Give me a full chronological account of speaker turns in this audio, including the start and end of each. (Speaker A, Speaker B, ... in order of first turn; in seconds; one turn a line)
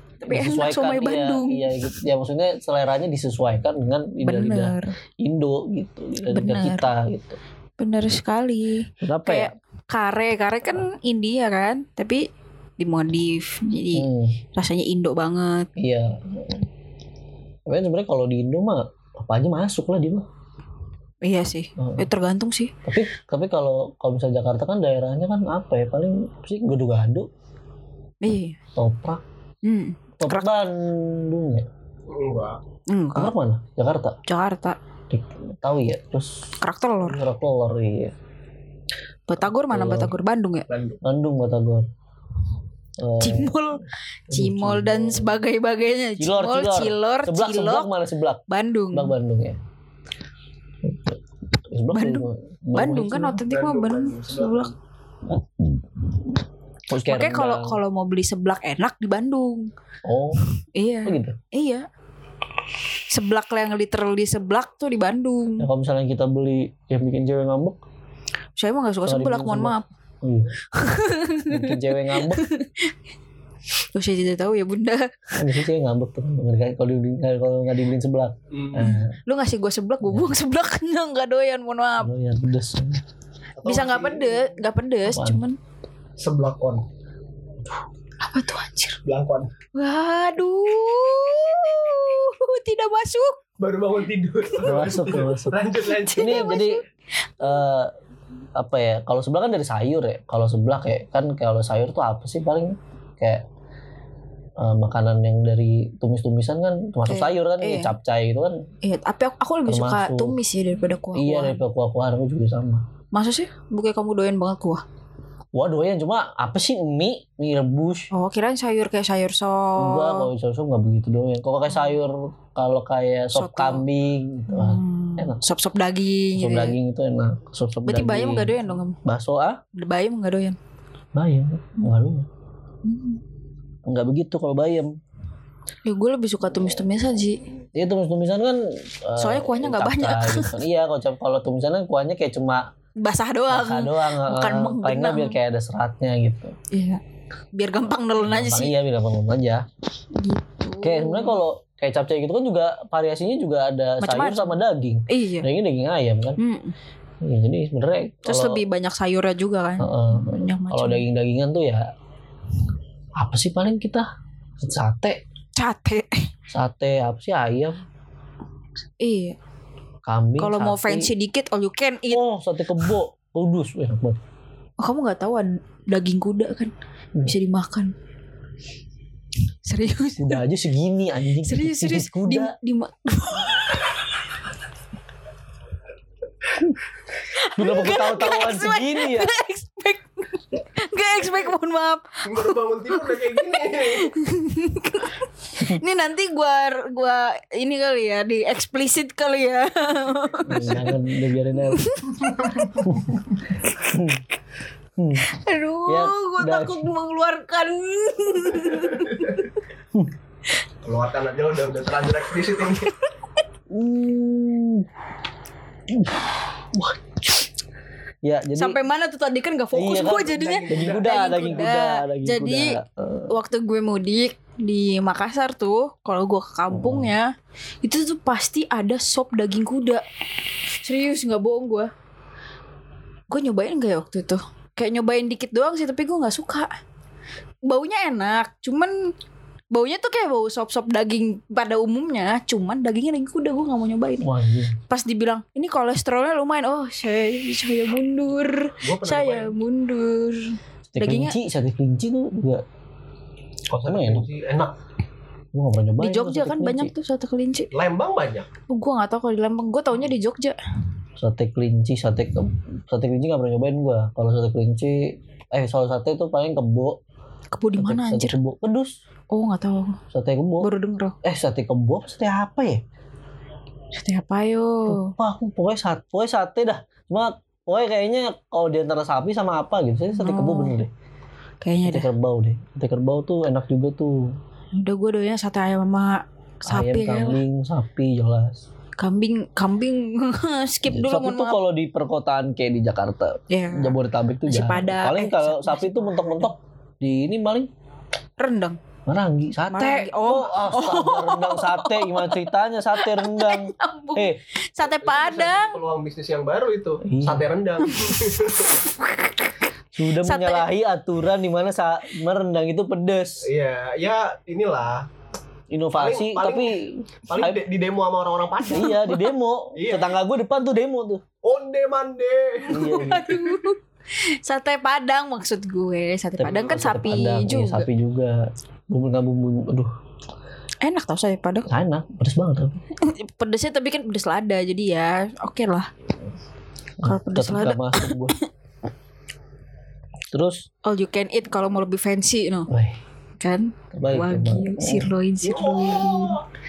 Speaker A: 0.2-1.9
Speaker B: 0.2-7.4
Speaker A: 4.2-4.9
Speaker A: 6.3-6.9
Speaker A: 7.8-12.3
Speaker B: 9.0-9.5
Speaker A: 12.8-15.7
Speaker B: 13.9-14.4
Speaker B: 15.8-16.6
Speaker B: 17.6-20.2
Speaker A: 21.2-22.7
Speaker B: 21.8-22.0
Speaker B: 22.8-27.3
Speaker A: 28.2-28.6
Speaker B: 28.8-29.2
Speaker A: 29.6-30.5
Speaker B: 30.2-31.7
Speaker C: 32.1-32.6
Speaker A: 32.9-33.3
Speaker B: 33.1-34.2
Speaker A: 34.3-34.8
Speaker B: 35.1-36.5
Speaker A: 36.6-37.2
Speaker B: 37.0-38.1
Speaker A: 39.3-40.7
Speaker B: 39.7-40.1
Speaker C: 40.7-41.0
Speaker B: 41.0-41.9
Speaker B: 43.0-43.6
Speaker A: 43.2-47.9
Speaker B: 44.3-45.4
Speaker B: 46.2-48.4
Speaker A: 48.5-49.1
Speaker B: 48.9-49.6
Speaker B: 50.8-53.4
Speaker A: 51.9-54.7
Speaker C: 53.4-54.7
Speaker B: 55.3-55.8
Speaker B: 56.9-57.8
Speaker A: 57.1-59.7
Speaker B: 60.0-60.5
Speaker A: 60.4-61.9
Speaker B: 61.0-61.4
Speaker A: 63.1-65.7
Speaker B: 65.6-67.8
Speaker A: 68.6-69.8
Speaker B: 69.0-70.5
Speaker A: 70.7-72.9
Speaker B: 71.5-72.4
Speaker A: 73.9-75.4
Speaker B: 75.3-79.2
Speaker C: 78.5-78.9
Speaker A: 78.8-82.1
Speaker B: 80.0-80.3
Speaker B: 82.0-83.0
Speaker C: 83.6-84.5
Speaker A: 83.6-85.6
Speaker B: 85.1-85.4
Speaker C: 86.2-86.8
Speaker A: 88.2-89.0
Speaker C: 89.0-89.5
Speaker A: 89.8-93.4
Speaker C: 93.6-96.5
Speaker B: 94.6-95.6
Speaker A: 95.9-96.8
Speaker B: 96.1-96.8
Speaker B: 97.4-97.9
Speaker B: 98.6-103.4
Speaker B: 104.6-108.6
Speaker A: 107.1-107.9
Speaker A: 108.8-111.6
Speaker B: 109.7-110.4
Speaker B: 111.1-112.8
Speaker A: 113.1-114.8
Speaker B: 115.5-118.1
Speaker A: 118.1-120.3
Speaker B: 119.8-125.4
Speaker A: 123.3-123.8
Speaker A: 124.5-126.8
Speaker B: 126.3-129.6
Speaker A: 127.8-129.0
Speaker A: 129.7-130.6
Speaker B: 131.1-132.3
Speaker A: 132.8-133.2
Speaker B: 133.9-134.9
Speaker A: 135.8-137.4
Speaker B: 137.8-142.7
Speaker A: 139.2-140.6
Speaker A: 143.0-145.4
Speaker B: 143.5-146.6
Speaker A: 146.7-147.0
Speaker A: 147.5-148.7
Speaker B: 148.2-149.6
Speaker A: 150.1-151.4
Speaker B: 150.8-156.4
Speaker A: 154.0-155.5
Speaker A: 156.4-156.8
Speaker B: 157.2-158.6
Speaker A: 158.2-161.1
Speaker B: 159.8-161.9
Speaker B: 163.2-164.1
Speaker B: 164.6-165.2
Speaker A: 165.6-166.3
Speaker B: 166.5-167.8
Speaker A: 169.0-169.3
Speaker B: 170.1-171.1
Speaker A: 170.4-172.2
Speaker B: 172.1-174.2
Speaker A: 174.8-176.7
Speaker A: 177.3-177.9
Speaker A: 179.6-180.4
Speaker B: 180.2-182.6
Speaker A: 181.4-184.0
Speaker A: 187.2-201.0
Speaker B: 187.4-189.3
Speaker C: 192.2-194.1
Speaker B: 195.6-195.8
Speaker B: 200.4-201.9
Speaker A: 201.7-202.8
Speaker B: 202.8-204.2
Speaker B: 205.0-205.3
Speaker A: 205.2-209.5
Speaker B: 205.8-206.9
Speaker C: 208.9-209.3
Speaker C: 210.8-212.9
Speaker B: 213.7-214.9
Speaker B: 215.9-217.0
Speaker B: 218.2-218.8
Speaker A: 218.6-222.8
Speaker B: 219.7-223.3
Speaker C: 220.1-221.7
Speaker A: 223.3-227.3
Speaker B: 226.7-227.1
Speaker A: 227.8-230.0
Speaker A: 230.8-231.9
Speaker A: 233.3-236.7
Speaker A: 237.7-239.1
Speaker A: 239.7-244.3
Speaker B: 244.2-244.8
Speaker A: 244.9-251.3
Speaker C: 248.8-249.6
Speaker B: 250.9-252.6
Speaker C: 253.7-254.7
Speaker B: 253.8-254.3
Speaker B: 255.5-256.9
Speaker A: 256.0-257.7
Speaker C: 257.7-258.5
Speaker A: 258.7-260.6
Speaker B: 261.2-267.0
Speaker A: 267.5-268.4
Speaker B: 267.8-269.0
Speaker A: 269.3-270.0
Speaker B: 270.1-270.7
Speaker A: 270.6-271.2
Speaker B: 271.2-272.8
Speaker A: 273.9-275.1
Speaker B: 274.9-280.9
Speaker A: 280.2-280.8
Speaker A: 281.6-282.1
Speaker B: 281.8-284.4
Speaker A: 284.7-287.4
Speaker B: 286.7-288.6
Speaker A: 289.0-291.6
Speaker B: 290.9-297.7
Speaker A: 293.5-296.5
Speaker A: 298.4-298.8
Speaker B: 299.1-304.4
Speaker A: 299.7-305.8
Speaker C: 305.0-308.8
Speaker B: 307.0-307.5
Speaker A: 307.9-309.5
Speaker B: 309.9-313.5
Speaker A: 310.2-310.6
Speaker C: 313.4-315.1
Speaker B: 315.7-317.6
Speaker C: 316.0-316.7
Speaker C: 317.3-318.9
Speaker B: 318.7-321.2
Speaker A: 318.7-319.2
Speaker C: 319.8-320.1
Speaker C: 321.4-323.0
Speaker A: 322.7-327.9
Speaker B: 322.7-323.4
Speaker B: 326.4-329.9
Speaker A: 330.8-331.7
Speaker B: 331.7-332.8
Speaker A: 332.9-335.9
Speaker B: 337.0-338.4
Speaker A: 337.0-338.4
Speaker B: 340.3-340.7
Speaker A: 340.8-342.7
Speaker B: 342.7-343.0
Speaker A: 343.4-346.4
Speaker B: 343.9-345.1
Speaker C: 345.4-346.4